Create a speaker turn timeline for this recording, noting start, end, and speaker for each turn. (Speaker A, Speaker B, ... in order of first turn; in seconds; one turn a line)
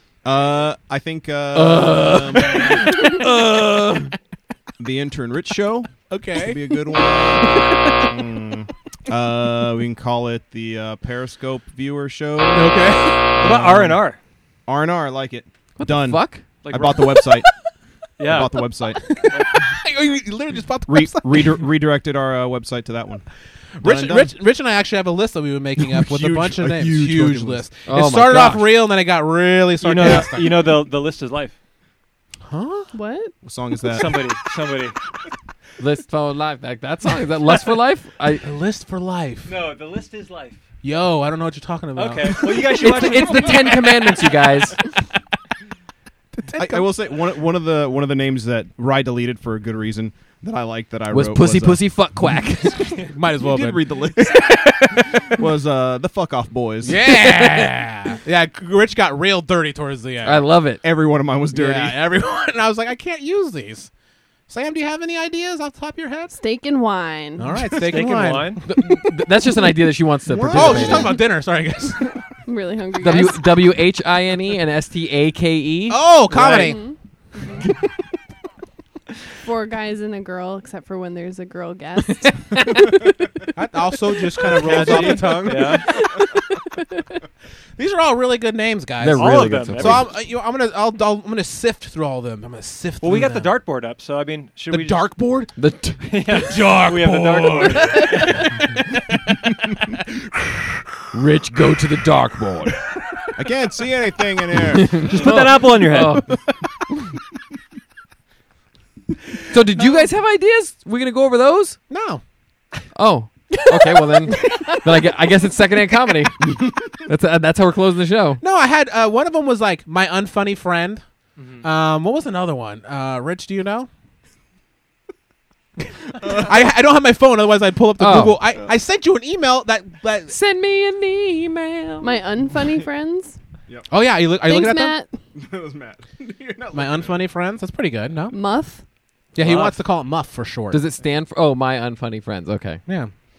Speaker A: 0.2-3.0
Speaker B: 1.5-4.1
Speaker A: 4.8-14.0
Speaker C: 6.1-8.1
Speaker C: 12.5-13.5
Speaker D: 13.4-14.2
Speaker A: 14.7-17.5
Speaker B: 15.8-16.4
Speaker D: 16.6-17.2
Speaker D: 18.2-18.5
Speaker A: 18.2-19.2
Speaker C: 19.0-21.6
Speaker A: 20.9-23.3
Speaker C: 23.8-30.7
Speaker A: 23.8-24.3
Speaker A: 25.8-27.6
Speaker B: 27.9-28.7
Speaker D: 29.8-31.6
Speaker C: 32.5-32.9
Speaker E: 32.9-33.3
Speaker A: 33.4-34.2
Speaker D: 33.9-35.0
Speaker B: 35.8-38.4
Speaker C: 38.4-39.5
Speaker D: 39.5-40.6
Speaker C: 40.8-44.2
Speaker D: 42.0-43.9
Speaker B: 42.8-44.8
Speaker C: 46.3-46.9
Speaker A: 46.5-51.8
Speaker B: 51.1-53.0
Speaker C: 53.0-55.3
Speaker A: 53.4-57.0
Speaker C: 56.8-60.5
Speaker B: 57.0-57.8
Speaker B: 60.2-60.8
Speaker A: 60.8-62.0
Speaker C: 61.5-63.9
Speaker C: 64.5-66.4
Speaker E: 66.4-67.6
Speaker C: 67.4-69.1
Speaker D: 67.9-68.6
Speaker B: 68.6-71.1
Speaker A: 70.3-71.1
Speaker C: 70.4-72.1
Speaker E: 72.5-73.6
Speaker B: 73.0-76.6
Speaker C: 75.9-76.8
Speaker D: 76.3-76.8
Speaker E: 76.5-77.6
Speaker E: 79.4-83.0
Speaker C: 83.5-86.0
Speaker D: 84.7-85.9
Speaker A: 84.7-85.4
Speaker C: 87.8-93.5
Speaker B: 89.0-90.1
Speaker D: 89.2-90.1
Speaker D: 93.0-95.1
Speaker C: 94.7-95.5
Speaker B: 95.6-96.1
Speaker D: 96.1-98.4
Speaker C: 96.4-98.5
Speaker B: 101.1-102.8
Speaker A: 103.4-105.1
Speaker B: 104.7-106.4
Speaker D: 105.0-106.2
Speaker B: 109.5-111.8
Speaker C: 109.8-110.0
Speaker C: 111.9-112.2
Speaker B: 113.0-118.4
Speaker E: 113.5-114.8
Speaker C: 118.4-121.0
Speaker D: 121.4-121.6
Speaker C: 121.6-123.9
Speaker C: 126.2-130.3
Speaker B: 128.0-128.4
Speaker B: 130.3-132.2
Speaker E: 132.0-133.4
Speaker C: 133.9-135.0
Speaker E: 134.4-135.2
Speaker A: 135.3-137.2
Speaker C: 136.7-138.4
Speaker E: 138.3-138.8
Speaker C: 139.3-140.8
Speaker D: 139.4-139.8
Speaker B: 140.7-142.8
Speaker C: 142.9-143.1